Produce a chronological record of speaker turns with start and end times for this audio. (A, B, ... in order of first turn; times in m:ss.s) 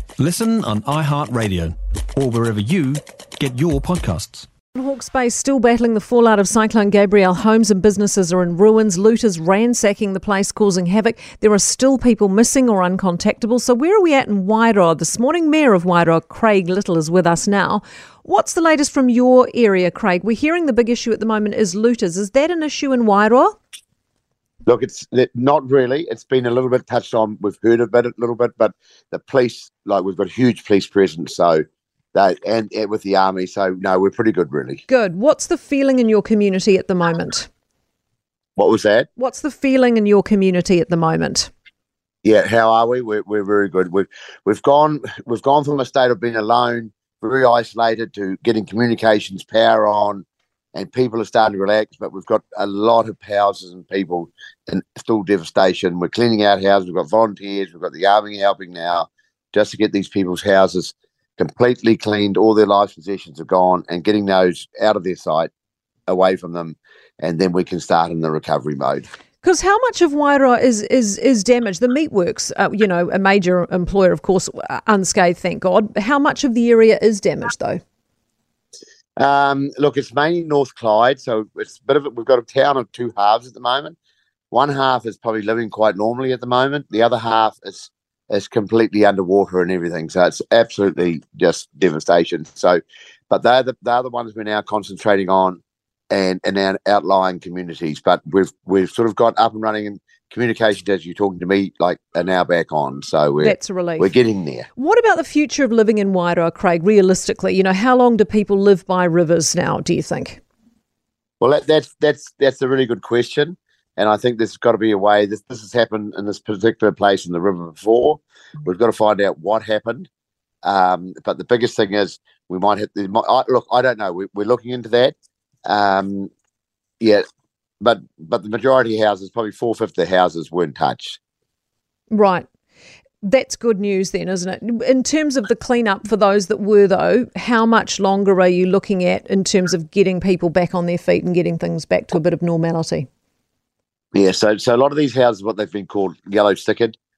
0:00.2-0:04.5 A
0:04.7-0:23.6 B
0:24.6-0:34.8 C
0:34.9-0:37.5 B
0:38.6-0:39.1 C
0:39.2-0:41.5 B
0:42.2-1:05.5 C
1:06.1-1:09.1 C
1:09.4-1:17.8 B
1:19.2-1:23.9 C
1:24.5-1:35.6 C
1:36.1-1:44.6 C
1:43.4-1:44.1 B
1:44.7-1:50.4 B
1:51.4-2:00.1 C
2:00.6-2:06.3 C
2:07.8-2:11.2 C
2:12.1-2:12.4 B
2:13.2-2:23.1 B
2:24.1-2:27.0 C